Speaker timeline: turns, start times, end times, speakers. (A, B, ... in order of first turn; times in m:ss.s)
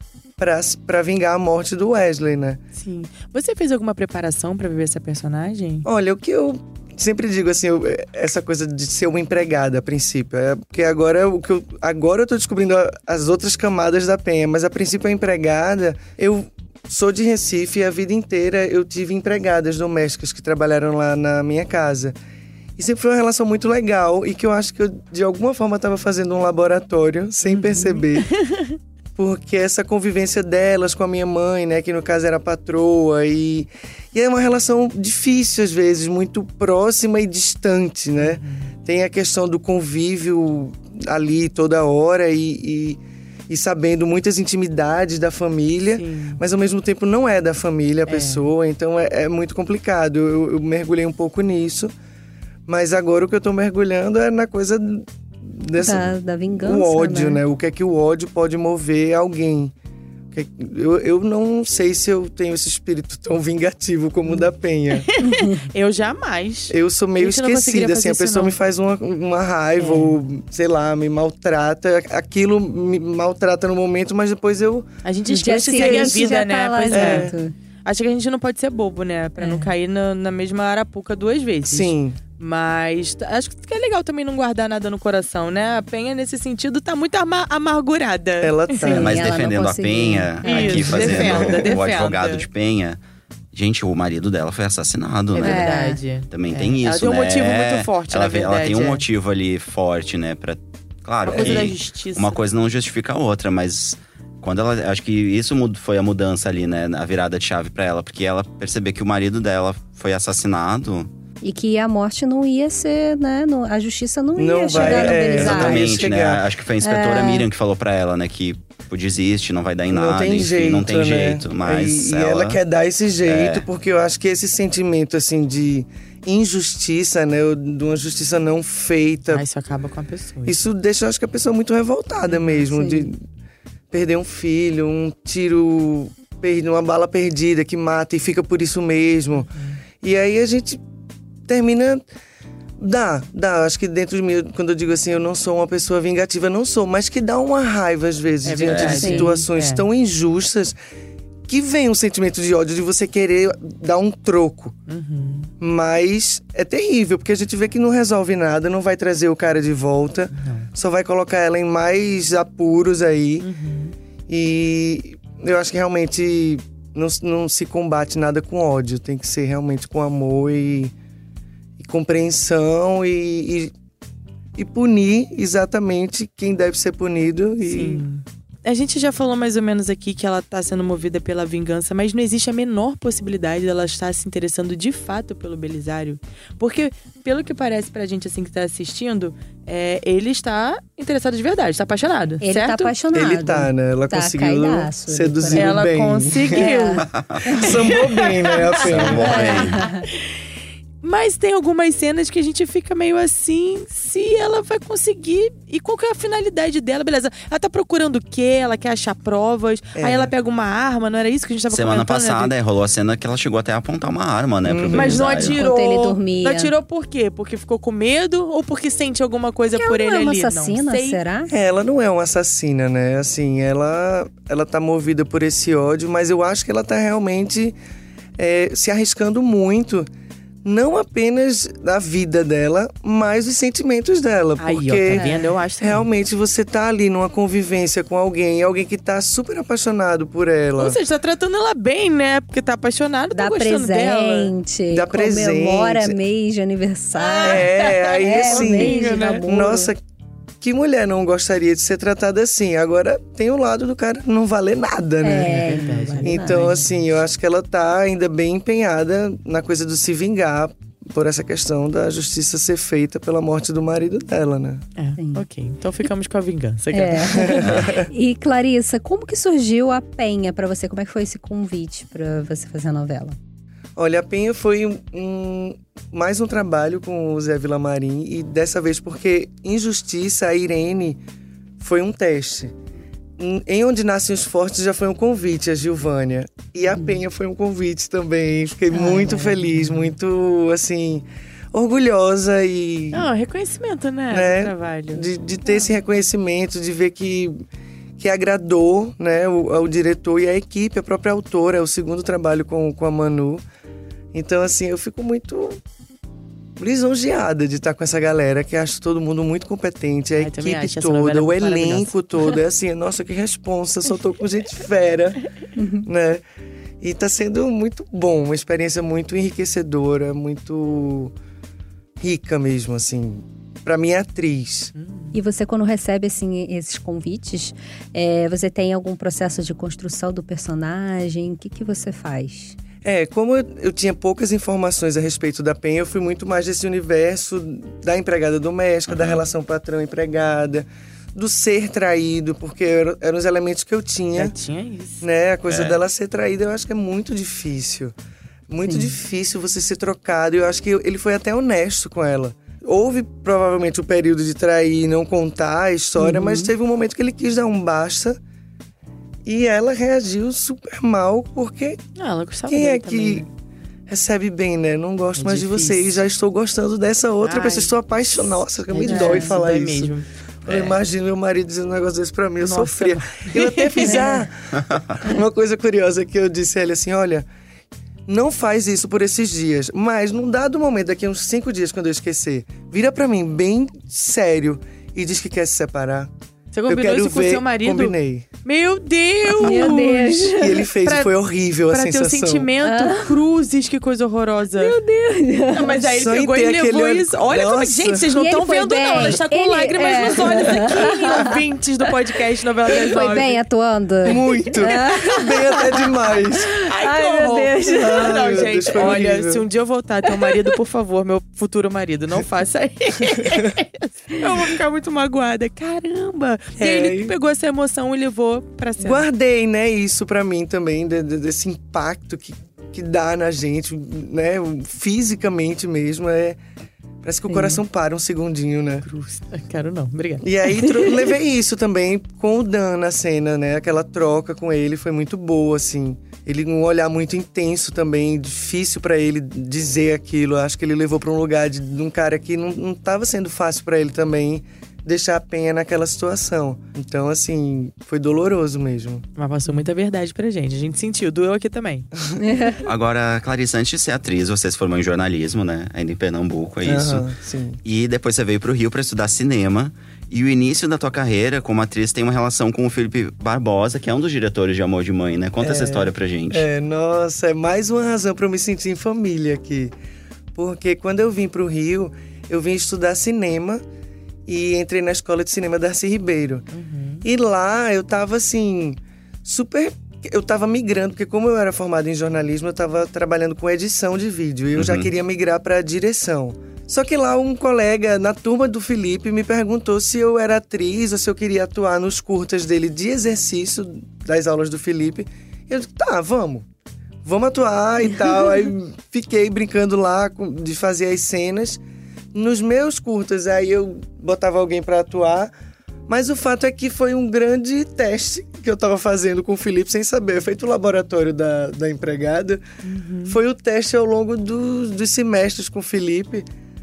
0:00.4-0:02.6 A
0:02.8-0:05.8 B
0:05.8-0:22.1 A
0:22.8-0:28.3 A
0:27.4-0:28.8 B
0:29.2-0:51.9 A
0:38.2-0:38.7 B
0:46.0-0:46.4 B
0:48.1-0:48.5 B
0:52.7-0:59.7 A
0:55.8-0:57.4 C
1:00.3-1:05.1 A
1:04.3-1:08.5 B
1:05.2-1:05.5 C
1:06.7-1:14.9 A
1:09.8-1:10.2 B
1:15.0-1:17.3 B
1:15.3-1:17.5 C
1:15.5-1:16.3 A
1:16.9-1:17.3 A
1:17.8-1:29.2 B
1:19.4-1:19.7 C
1:21.6-1:22.2 A
1:28.4-1:29.2 A
1:28.8-1:31.1 C
1:29.0-1:33.0 D
1:30.4-1:32.5 B
1:30.7-1:31.6 A
1:33.5-1:35.7 D
1:35.3-1:39.0 B
1:35.4-1:36.0 C
1:36.3-1:51.1 D
1:41.2-1:42.4 B
1:51.4-1:56.1 C
1:54.4-1:56.4 A
1:54.7-2:02.6 D
1:56.8-1:57.4 C
1:59.9-2:09.4 A
2:03.2-2:03.6 D
2:09.3-2:10.6 B
2:10.4-2:13.2 A
2:12.3-2:12.6 B
2:12.7-2:13.1 C
2:13.9-2:20.8 A
2:21.5-2:22.0 A
2:22.8-2:30.8 A
2:28.4-2:29.8 B
2:28.6-2:29.1 D
2:29.0-2:29.3 C
2:31.5-2:34.7 A
2:34.9-2:35.5 B
2:35.6-2:43.5 A
2:40.3-2:40.7 B
2:43.4-2:43.9 B
2:44.3-2:50.9 A
2:51.8-2:53.7 A
2:54.6-2:58.0 A
2:57.6-3:12.9 B
3:12.4-3:15.8 C
3:13.1-3:16.6 A
3:15.5-3:20.3 B
3:16.5-3:17.7 C
3:17.0-3:17.6 D
3:17.5-3:19.5 A
3:18.8-3:19.8 D
3:19.2-3:20.1 C
3:21.0-3:32.5 B
3:29.9-3:30.3 A
3:31.7-3:35.6 D
3:34.6-3:35.3 A
3:34.9-3:41.2 B
3:35.5-3:36.7 C
3:39.7-3:41.5 C
3:41.5-3:47.8 A
3:48.4-3:50.1 A
3:50.6-3:55.3 A
3:54.6-3:56.1 B
3:55.1-3:55.5 C
3:55.8-4:01.0 A
4:00.8-4:04.5 B
4:03.3-4:09.9 C
4:04.9-4:06.2 A
4:07.2-4:09.5 B
4:07.4-4:10.0 A
4:10.6-4:15.7 A
4:15.2-4:16.8 C
4:15.4-4:17.0 B
4:16.2-4:24.8 A
4:25.0-4:27.6 B
4:25.2-4:25.4 C
4:26.9-4:33.4 C
4:27.3-4:28.1 A
4:27.6-4:27.9 D
4:34.0-4:41.2 A
4:41.8-4:42.7 A
4:43.4-4:53.2 A
4:48.9-4:50.1 B
4:53.1-4:55.3 B
4:54.3-4:57.6 A
4:58.2-5:03.6 A
5:04.3-5:05.8 A
5:06.8-5:15.4 A
5:10.4-5:12.6 B
5:15.8-5:16.1 C
5:16.0-5:16.4 A
5:17.0-5:21.3 A
5:22.2-5:24.9 A
5:25.0-5:25.4 B
5:25.3-5:32.8 C
5:33.0-5:44.5 A
5:39.1-5:39.4 D
5:44.4-5:45.2 B
5:45.2-5:48.1 A
5:45.7-5:46.0 D
5:48.7-5:58.4 A
5:48.8-5:49.1 C
5:56.2-5:56.7 C
5:59.4-6:02.0 A
6:02.2-6:03.5 B
6:02.7-6:03.4 A
6:04.1-6:10.1 A
6:05.4-6:06.1 B
6:07.4-6:07.9 B
6:08.9-6:10.2 B
6:09.0-6:09.6 C
6:10.6-6:17.4 A
6:10.6-6:10.9 D
6:12.6-6:14.3 B
6:14.0-6:14.4 C
6:18.3-6:26.3 A
6:26.7-6:30.4 B
6:26.9-6:28.5 A
6:29.6-6:30.8 C
6:29.6-6:32.7 A
6:31.0-6:31.3 B
6:31.9-6:35.0 B
6:32.8-6:33.4 C
6:34.8-6:36.1 C
6:35.7-6:43.6 B
6:36.1-6:38.3 A
6:38.3-6:41.6 C
6:40.5-6:41.4 A
6:42.9-6:49.2 C
6:44.2-6:46.8 A
6:46.8-6:59.2 B
6:47.9-6:49.6 A
6:53.4-6:53.7 A
6:56.8-6:57.3 A
6:59.0-7:06.6 A
7:07.2-7:09.1 A
7:07.5-7:07.8 C
7:09.0-7:11.0 B
7:10.4-7:29.2 A
7:29.4-7:32.1 B
7:32.4-7:32.8 C
7:32.8-7:37.2 D
7:36.8-7:37.8 A
7:37.8-7:46.7 D
7:45.6-7:49.9 A
7:50.5-7:53.8 A
7:54.5-7:56.6 A
7:56.7-7:57.2 B
7:57.2-8:16.6 A
8:04.8-8:05.1 D
8:17.2-8:21.8 A
8:22.3-8:25.5 A
8:26.1-8:32.6 A
8:32.8-8:33.4 B
8:33.2-8:36.5 A